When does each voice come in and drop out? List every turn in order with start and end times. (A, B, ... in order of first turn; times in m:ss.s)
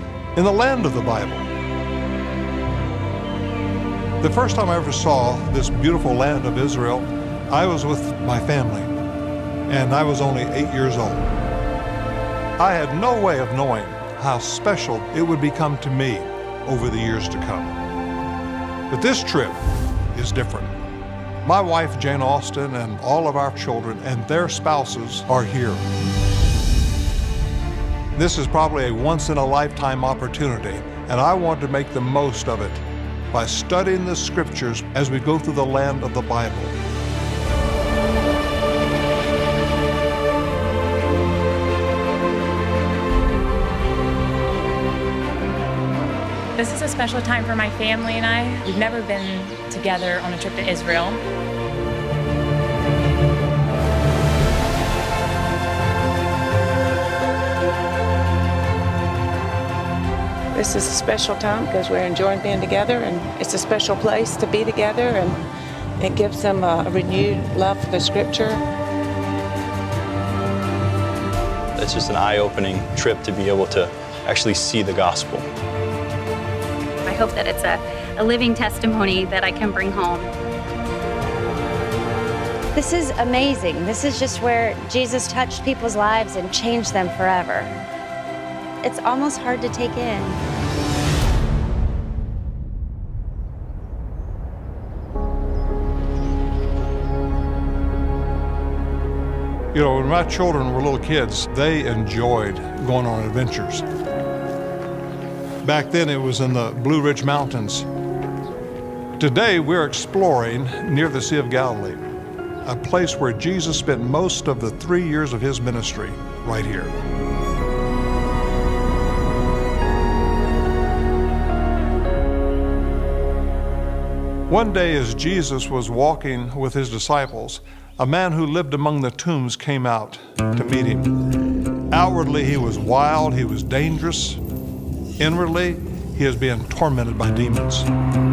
0:00.3-0:01.5 A
0:04.2-0:08.9 A
0:09.7-0:11.3 A
0:12.6-0:17.8 A
0:18.9-0:19.6 A
0:20.1-0:20.7 A
0:21.4-0:25.8 A
0:28.1-0:36.7 A
0:46.6-0:51.2 B
1:00.5-1:05.4 C
1:06.0-1:08.6 C
1:11.8-1:15.5 D
1:17.0-1:20.3 E
1:22.7-1:27.8 F
1:28.8-1:30.4 F
1:39.7-1:43.8 A
1:45.6-1:47.9 A
1:49.2-1:52.0 A
1:52.6-1:56.9 A
2:04.5-2:11.2 A
2:11.9-2:14.4 A
2:15.2-2:17.9 A